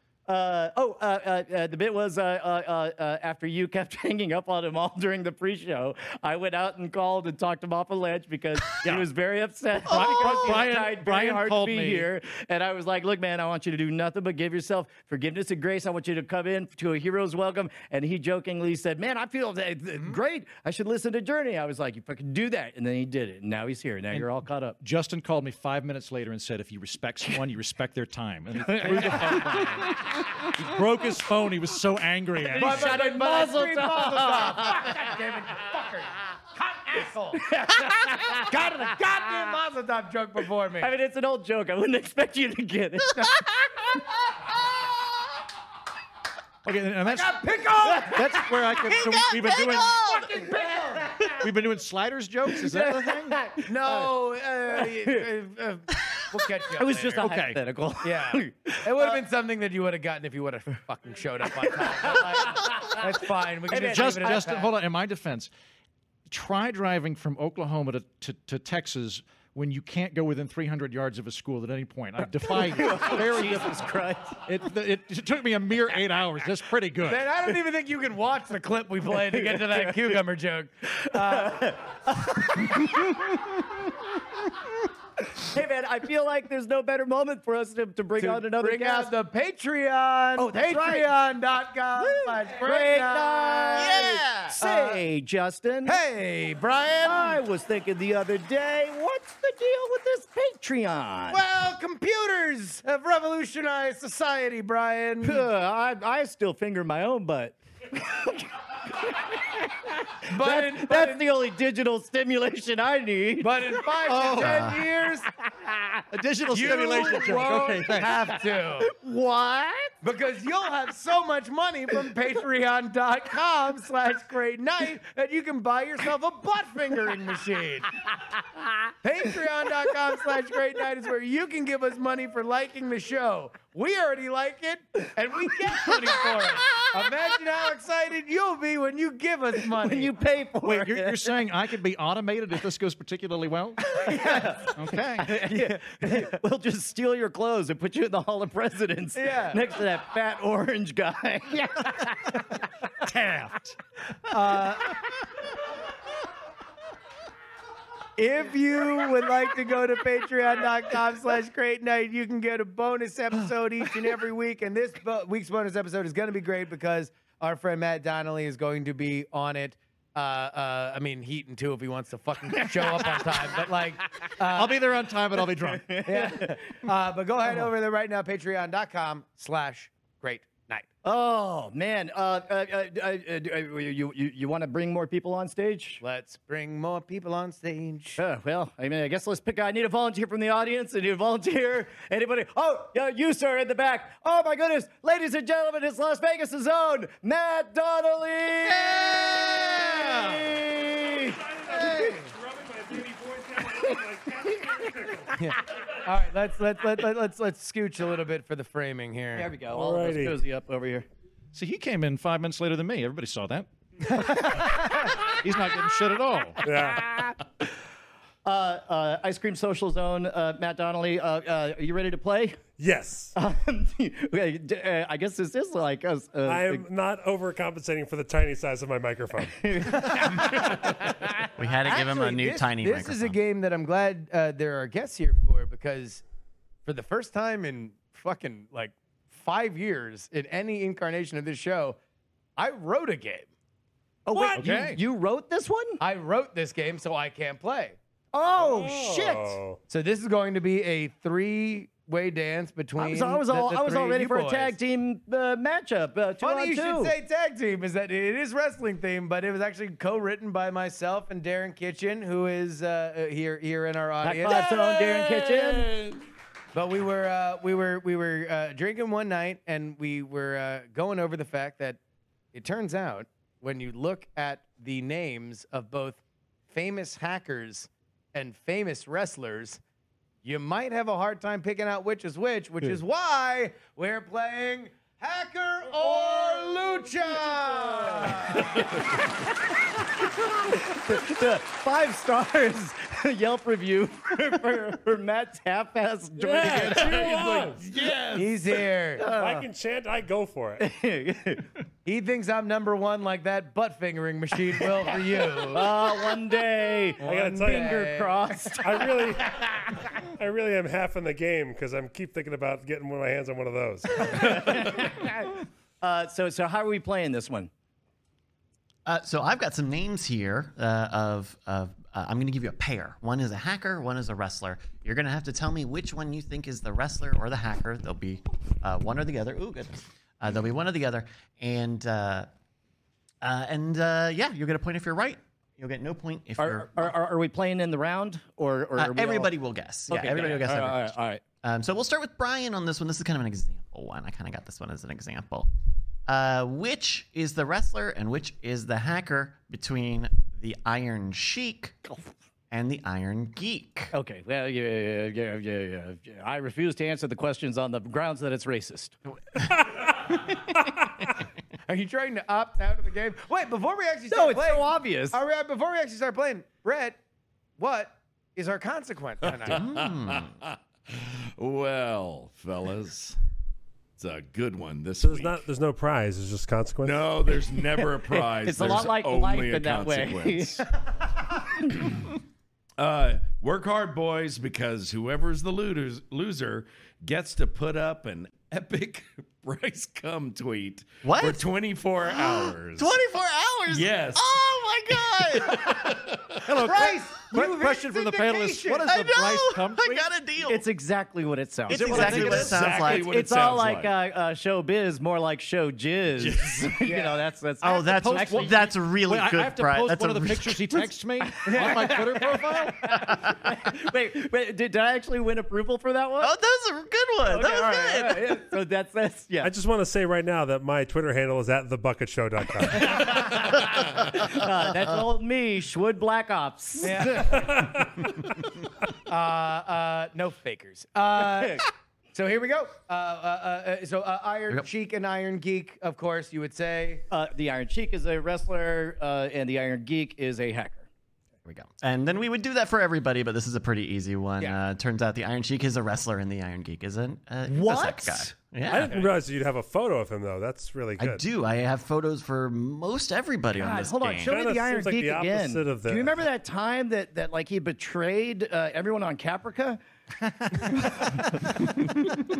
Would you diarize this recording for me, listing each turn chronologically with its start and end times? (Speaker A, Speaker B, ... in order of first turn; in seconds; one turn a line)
Speaker A: 0.3-24.8
Speaker B: 9.8-12.1
Speaker B: 24.1-33.0
Speaker A: 28.6-29.9
Speaker A: 32.5-35.0
Speaker C: 32.5-40.9
Speaker A: 37.3-38.8
Speaker A: 40.8-44.0
Speaker B: 46.6-50.0
Speaker C: 47.0-48.3
Speaker A: 47.8-49.0
Speaker D: 48.9-50.4
Speaker C: 50.1-51.2
Speaker A: 51.0-51.5
Speaker B: 51.4-53.4
Speaker A: 52.5-54.1
Speaker C: 53.7-57.3
Speaker A: 54.7-55.3
Speaker A: 56.7-59.2
Speaker B: 57.2-57.6
Speaker C: 58.0-64.7
Speaker A: 61.6-63.0
Speaker A: 63.7-64.5
Speaker B: 63.8-65.5
Speaker B: 66.3-73.9
Speaker A: 72.4-74.4
Speaker B: 74.5-77.3
Speaker C: 77.0-81.7
Speaker A: 79.2-80.2
Speaker A: 80.9-83.9
Speaker A: 85.3-89.1
Speaker C: 88.2-94.1
Speaker A: 90.4-91.1
Speaker A: 92.0-96.0
Speaker D: 93.7-94.6
Speaker C: 94.6-95.0
Speaker C: 95.8-97.4
Speaker A: 97.0-101.4
Speaker C: 101.3-105.5
Speaker A: 105.2-114.5
Speaker C: 110.2-111.3
Speaker C: 113.4-115.3
Speaker B: 114.1-114.7
Speaker D: 114.4-114.8
Speaker B: 116.1-118.2
Speaker C: 116.5-118.9
Speaker A: 118.8-119.9
Speaker C: 120.0-127.9
Speaker C: 129.0-140.1
Speaker A: 139.8-141.4
Speaker B: 140.6-144.1
Speaker A: 143.9-152.4
Speaker C: 144.1-144.5
Speaker B: 144.7-145.4
Speaker C: 145.5-146.3
Speaker C: 149.1-149.7
Speaker B: 153.0-153.7
Speaker C: 154.3-155.0
Speaker C: 158.2-174.8
Speaker A: 172.6-173.4
Speaker B: 174.5-175.9
Speaker A: 175.4-176.6
Speaker C: 176.1-180.9
Speaker A: 181.0-186.0
Speaker C: 186.0-188.2
Speaker A: 188.2-202.1
Speaker E: 200.1-200.4
Speaker E: 201.1-205.4
Speaker C: 202.0-202.3
Speaker C: 205.4-209.5
Speaker A: 209.3-211.1
Speaker E: 209.7-210.4
Speaker B: 211.5-213.7
Speaker A: 214.1-214.9
Speaker B: 214.6-216.6
Speaker E: 216.6-217.1
Speaker A: 218.4-222.6
Speaker E: 222.8-223.3
Speaker A: 223.3-226.9
Speaker E: 226.4-229.8
Speaker A: 229.6-230.6
Speaker C: 230.1-231.3
Speaker D: 231.6-233.4
Speaker C: 231.8-236.2
Speaker C: 236.8-242.0
Speaker C: 242.6-243.5
Speaker A: 244.3-246.0
Speaker E: 244.4-244.9
Speaker B: 244.5-245.0
Speaker C: 246.0-248.0
Speaker A: 248.3-249.6
Speaker E: 248.6-249.8
Speaker C: 249.9-254.8
Speaker A: 253.0-257.1
Speaker C: 256.4-264.7
Speaker A: 264.2-265.9
Speaker F: 264.5-266.2
Speaker C: 266.7-272.0
Speaker C: 272.5-279.8
Speaker C: 280.4-288.9
Speaker A: 288.0-288.5
Speaker A: 290.7-297.3
Speaker E: 296.5-297.8
Speaker F: 296.6-298.8
Speaker C: 298.3-299.3
Speaker A: 299.2-299.7
Speaker E: 299.3-300.9
Speaker A: 300.8-301.7
Speaker C: 302.1-305.9
Speaker A: 305.6-309.7
Speaker E: 307.2-308.1
Speaker C: 307.2-308.6
Speaker E: 308.8-315.0
Speaker A: 314.2-317.7
Speaker D: 319.1-332.5
Speaker D: 333.4-337.1
Speaker A: 336.6-339.5
Speaker D: 339.0-345.7
Speaker A: 340.1-341.4
Speaker D: 346.3-352.0
Speaker D: 352.7-354.1
Speaker A: 354.1-359.2
Speaker C: 361.9-367.2
Speaker A: 364.3-365.4
Speaker C: 367.8-369.8
Speaker F: 369.5-373.4
Speaker D: 369.7-370.6
Speaker F: 374.2-375.6
Speaker E: 375.2-377.4
Speaker F: 377.0-380.8
Speaker A: 377.9-380.9
Speaker F: 383.0-393.1
Speaker D: 391.2-391.6
Speaker D: 392.3-396.1
Speaker F: 393.9-396.6
Speaker B: 396.6-400.2
Speaker C: 396.8-399.1
Speaker D: 399.0-400.9
Speaker A: 400.6-408.9
Speaker D: 401.9-403.3
Speaker B: 401.9-402.7
Speaker F: 402.4-404.1
Speaker F: 406.4-407.0
Speaker C: 407.0-407.4
Speaker D: 407.8-411.1
Speaker B: 408.0-413.1
Speaker A: 411.4-416.5
Speaker D: 416.4-418.6
Speaker A: 417.4-419.7
Speaker E: 419.6-423.5
Speaker A: 422.9-427.9
Speaker C: 427.0-427.6
Speaker E: 427.4-428.3
Speaker C: 429.3-437.2
Speaker A: 431.4-431.8
Speaker A: 437.3-441.1
Speaker D: 441.6-449.3
Speaker A: 447.6-448.5
Speaker E: 448.9-451.4
Speaker D: 451.2-454.6
Speaker A: 453.7-460.0
Speaker E: 454.4-456.4
Speaker A: 460.8-461.7